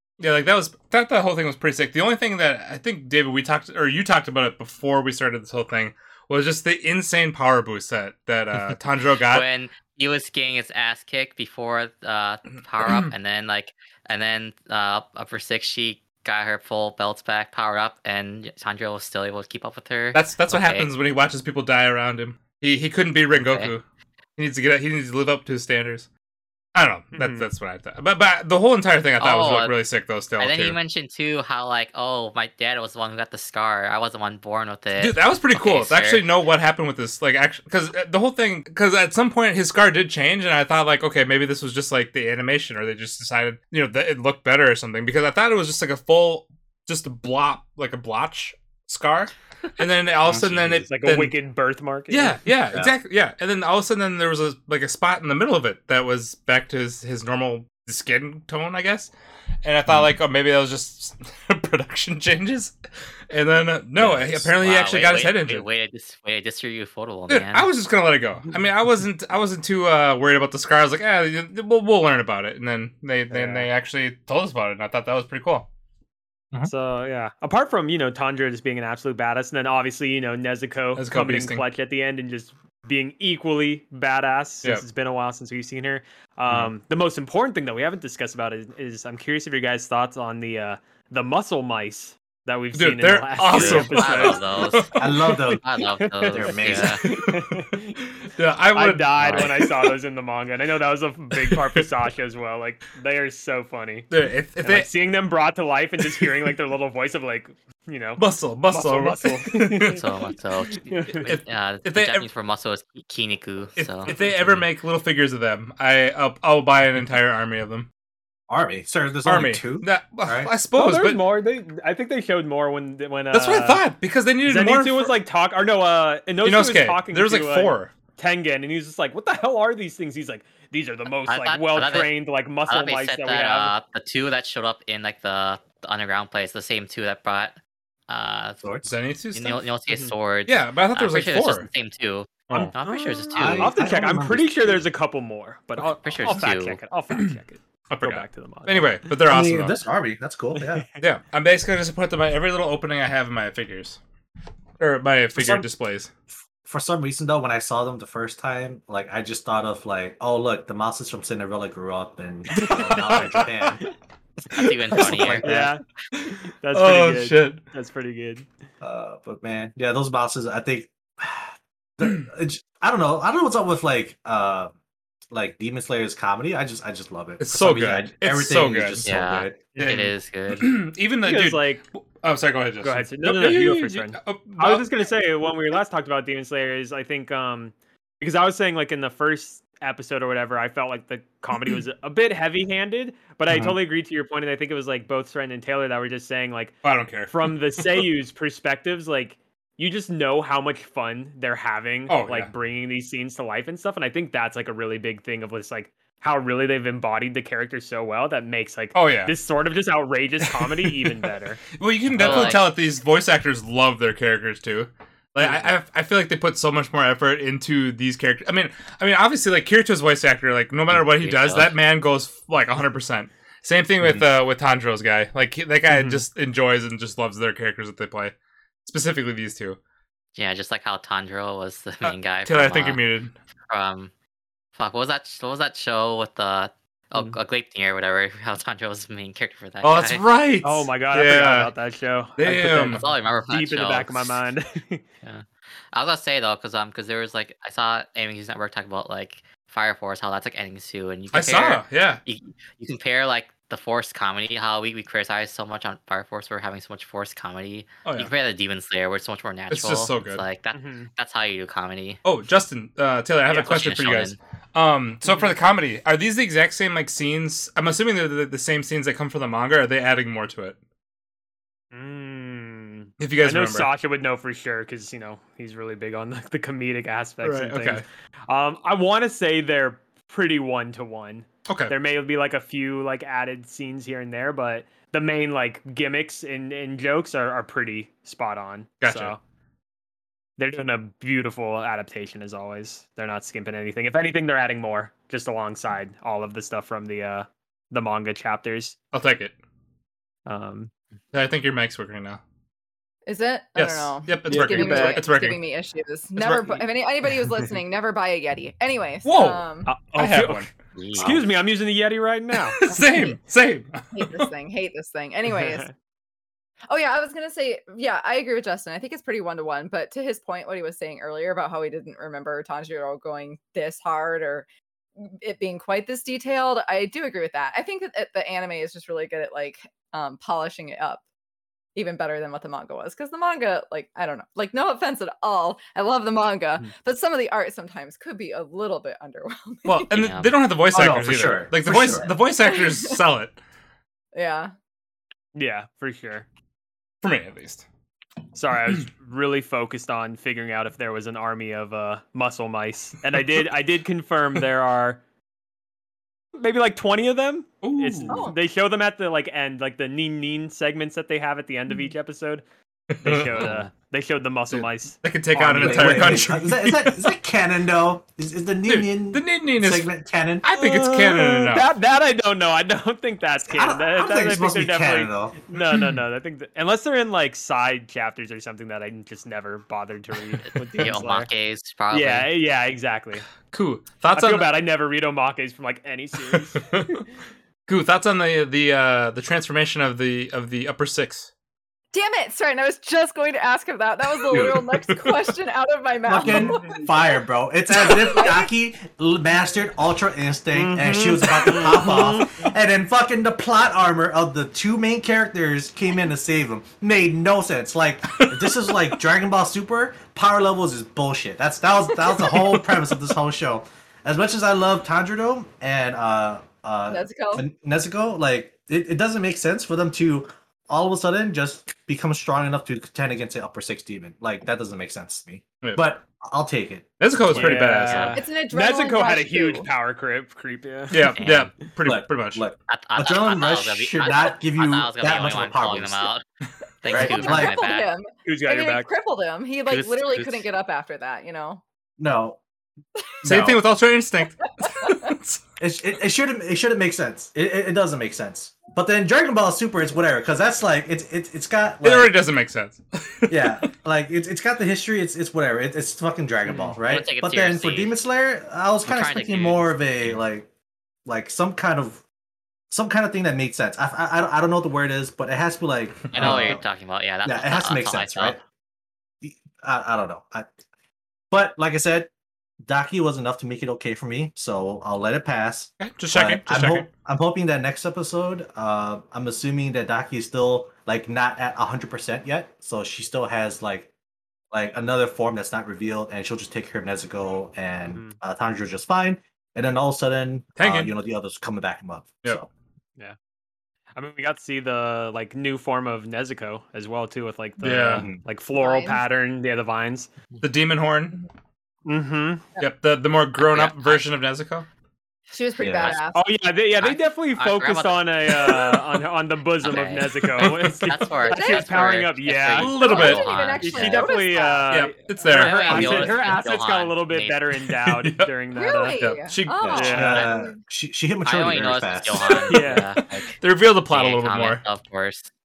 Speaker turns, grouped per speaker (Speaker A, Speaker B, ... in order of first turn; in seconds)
Speaker A: 0.2-9.5, 12.8-13.1, 20.1-23.8, 24.4-26.1, 26.7-30.8, 35.0-51.4, 52.1-59.1, 59.6-62.7, 63.3-65.7, 67.3-75.7, 80.9-81.7, 92.7-95.3, 97.1-97.7, 98.3-99.7, 101.4-101.8, 104.1-104.9, 108.2-110.0, 111.1-112.3, 113.8-117.9, 119.2-121.3, 123.3-125.1, 126.4-127.9, 138.8-139.6, 140.5-141.7, 147.9-149.8, 151.0-154.0, 154.8-156.1, 165.1-165.6, 166.7-167.6, 177.4-179.1, 179.8-184.8, 196.8-198.0, 202.1-202.5, 208.9-209.3, 211.8-229.8, 232.0-233.3, 239.8-241.7, 242.4-243.1, 251.3-252.2, 258.0-258.3, 259.7-260.4, 262.2-270.8, 273.2-273.9, 277.4-278.0, 281.7-281.9, 289.0-289.3, 299.1-299.6, 301.3-302.4, 303.7-305.6, 306.4-306.7, 309.2-310.7, 312.7-314.5, 339.9-343.6, 347.2-347.9, 357.8-358.4, 363.1-363.7, 364.7-367.2, 368.9-370.1, 370.6-371.9, 383.7-384.7, 386.5-387.2, 387.9-391.5, 394.4-395.4, 408.3-408.9, 412.2-412.9, 425.8-426.1, 427.2-428.4, 431.1-432.6, 443.4-445.6, 452.0-453.9, 466.3-466.8, 476.0-477.1, 490.8-491.1, 497.8-498.3, 500.6-501.5, 502.8-504.9, 510.6-510.9, 512.8-513.5, 514.9-516.3, 518.0-518.6, 519.2-520.2, 522.4-524.8
Speaker B: 9.2-20.9, 23.3-23.7, 29.2-29.8, 30.4-36.3, 64.0-67.7, 93.5-95.0, 95.6-97.0, 99.2-99.5, 110.0-114.7, 131.2-137.6, 138.1-138.6, 139.3-143.8, 146.0-146.8, 164.5-165.6, 179.0-180.7, 212.2-212.7, 220.9-221.8, 230.3-233.0, 233.7-234.1, 234.7-240.3, 242.9-244.4, 245.2-262.2, 263.5-264.4, 310.9-311.5, 340.1-340.5, 363.5-363.9, 380.7-382.5, 431.4-431.7, 432.9-436.4, 437.0-438.1, 439.9-440.7, 457.1-458.2, 459.1-460.1, 466.3-468.6, 503.6-504.3, 507.0-508.5, 509.8-514.4, 515.5-517.6, 520.2-520.5, 521.5-523.6, 524.1-525.5
Speaker C: 27.1-27.5, 50.8-52.4, 73.3-73.7, 76.6-94.6, 95.9-98.0, 98.7-104.1, 104.6-110.0, 110.8-111.3, 120.7-123.8, 124.4-133.7, 139.9-140.1, 142.8-149.1, 150.6-151.0, 162.5-163.4, 165.0-168.5, 181.2-181.8, 182.8-196.7, 197.3-211.6, 215.4-215.7, 225.9-226.2, 240.6-245.0, 260.7-261.1, 265.2-265.5, 271.9-289.4, 290.6-298.9, 300.4-300.9, 304.4-305.2, 307.3-307.6, 309.8-312.8, 315.5-315.9, 345.5-346.5, 348.5-355.2, 356.5-362.6, 363.2-366.5, 370.7-381.5, 382.1-383.5, 384.3-387.0, 396.4-397.0, 400.7-402.7, 427.5-431.3, 438.4-439.1, 456.7-456.9, 488.1-488.4, 494.1-500.6, 502.1-502.6, 506.3-513.0, 513.8-519.2, 519.9-520.4, 522.7-523.1
Speaker D: 50.2-50.8, 59.9-60.1, 95.0-95.6, 96.3-97.0, 118.5-120.5, 138.6-138.9, 143.3-144.8, 149.3-150.8, 155.3-155.7, 156.6-163.8, 165.0-165.6, 168.8-174.7, 175.3-179.6, 224.0-224.2, 340.9-342.3, 365.8-370.6, 373.7-375.6, 394.5-394.9, 396.2-427.8, 432.0-436.3, 437.1-437.8, 442.2-442.6, 443.4-443.8, 445.8-452.3, 453.5-460.7, 461.2-462.2, 462.9-466.8, 467.4-468.6, 469.4-470.7, 471.5-472.3, 472.8-484.1, 484.7-492.7, 498.1-498.4, 505.8-506.2, 519.8-522.6
Speaker E: 303.2-310.0, 312.9-313.4, 314.1-315.9, 316.9-331.2, 331.9-340.1, 342.6-343.2, 344.3-344.7, 358.3-358.6, 392.1-398.7, 417.1-417.6, 428.3-429.9, 437.1-441.8, 444.7-445.2, 498.7-499.2, 505.5-506.5, 511.5-511.9, 512.9-515.0, 518.7-520.8